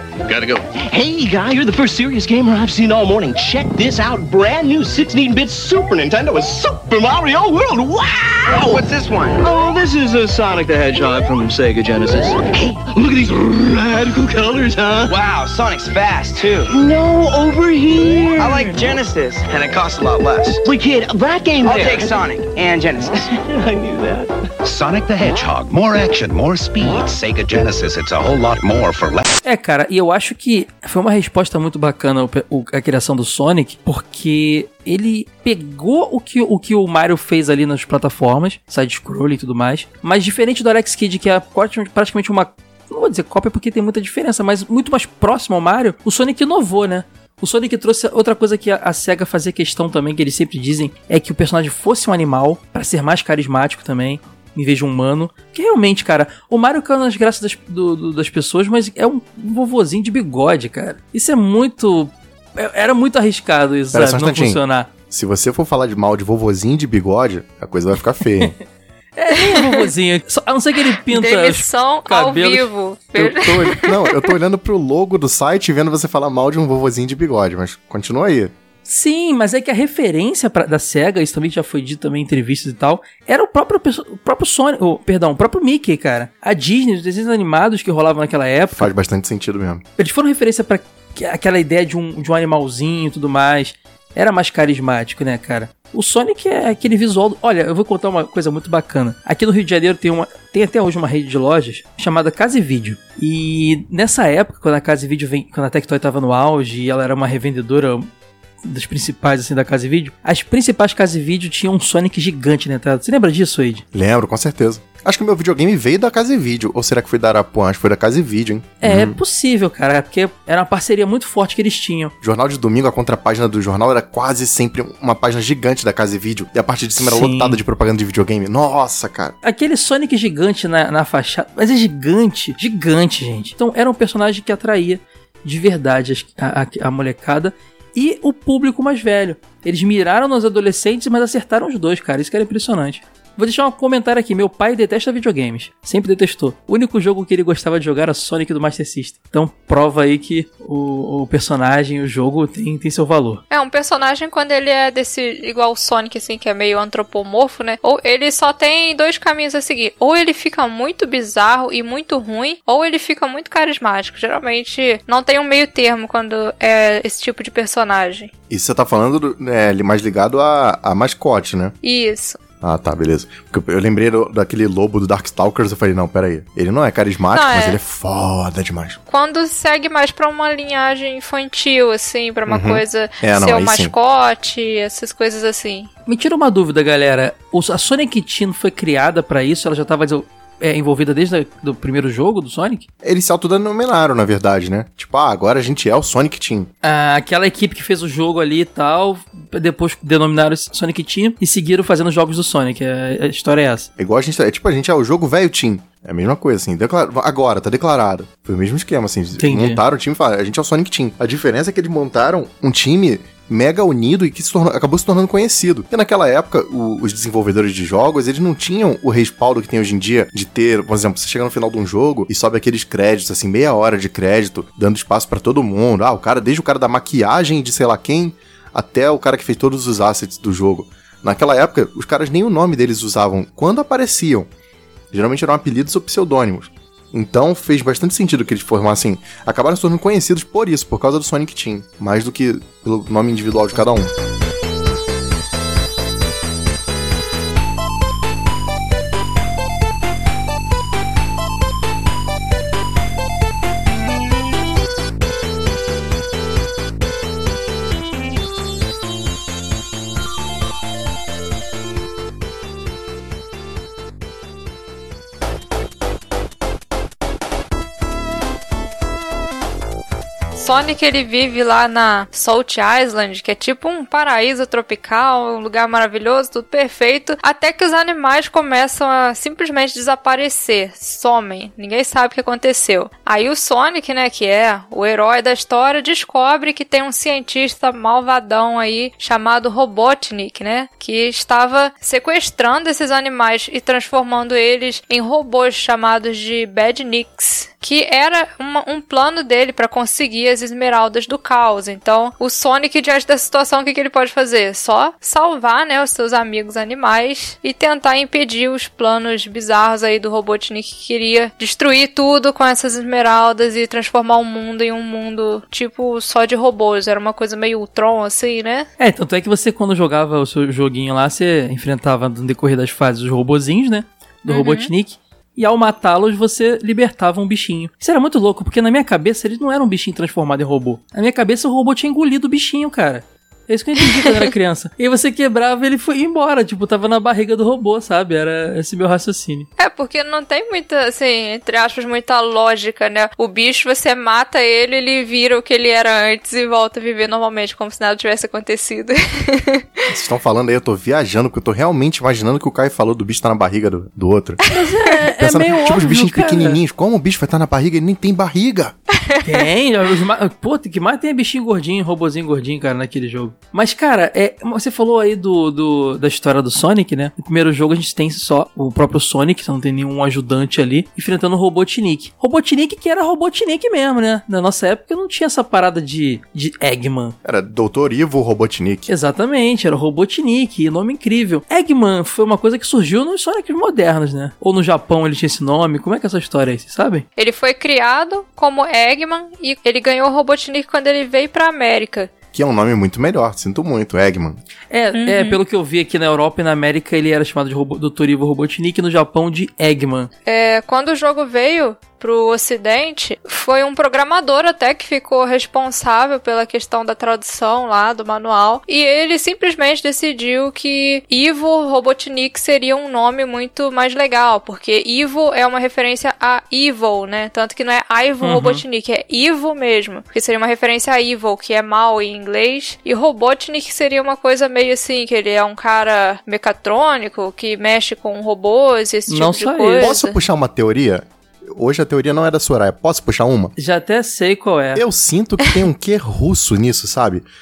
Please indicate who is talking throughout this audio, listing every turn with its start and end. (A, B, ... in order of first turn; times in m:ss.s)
0:00.2-0:15.2 A
0:08.5-0:09.7 B
0:15.0-0:16.8 B
0:16.7-0:18.8 A
0:18.4-0:20.6 B
0:20.6-0:22.3 A
0:21.6-0:23.1 B
0:23.5-0:24.3 A
0:24.6-0:29.2 C
0:29.4-1:04.9 D
1:03.9-1:08.5 E
1:09.2-1:13.2 D
1:09.4-1:09.9 F
1:11.1-1:14.3 F
1:13.2-1:18.5 E
1:18.8-1:28.9 D
1:28.7-1:29.8 E
1:30.0-1:48.1 D
1:48.6-1:53.8 D
1:53.9-1:59.2 E
1:58.8-2:02.1 D
2:02.2-2:09.3 E
2:07.0-2:07.6 D
2:09.4-2:33.4 D
2:33.5-2:48.3 F
2:48.5-2:51.7 E
2:51.8-2:52.4 F
2:52.6-2:59.0 E
2:57.3-2:57.8 F
2:59.1-3:05.9 F
3:02.5-3:03.9 E
3:06.1-3:12.8 D
3:13.0-3:16.7 E
3:16.8-3:23.9 D
3:24.0-3:54.5 E
3:29.4-3:29.8 D
3:55.1-4:04.1 E
4:30.5-5:18.9 F
5:19.0-5:39.7 D
5:24.5-5:24.9 F
5:39.8-5:50.0 F
5:50.1-5:54.6 E
5:54.7-5:56.8 D
5:55.4-5:58.9 E
5:59.2-5:59.6 F
5:59.4-6:17.3 D
6:17.4-6:19.1 E
6:19.1-6:27.2 D
6:27.4-6:32.3 F
6:32.5-6:34.6 E
6:34.9-6:40.3 D
6:35.2-6:35.6 F
6:40.4-7:10.4 F
6:58.4-6:58.8 D
7:09.3-7:10.1 D
7:10.0-7:13.7 E
7:13.8-7:15.0 D
7:14.9-7:17.5 E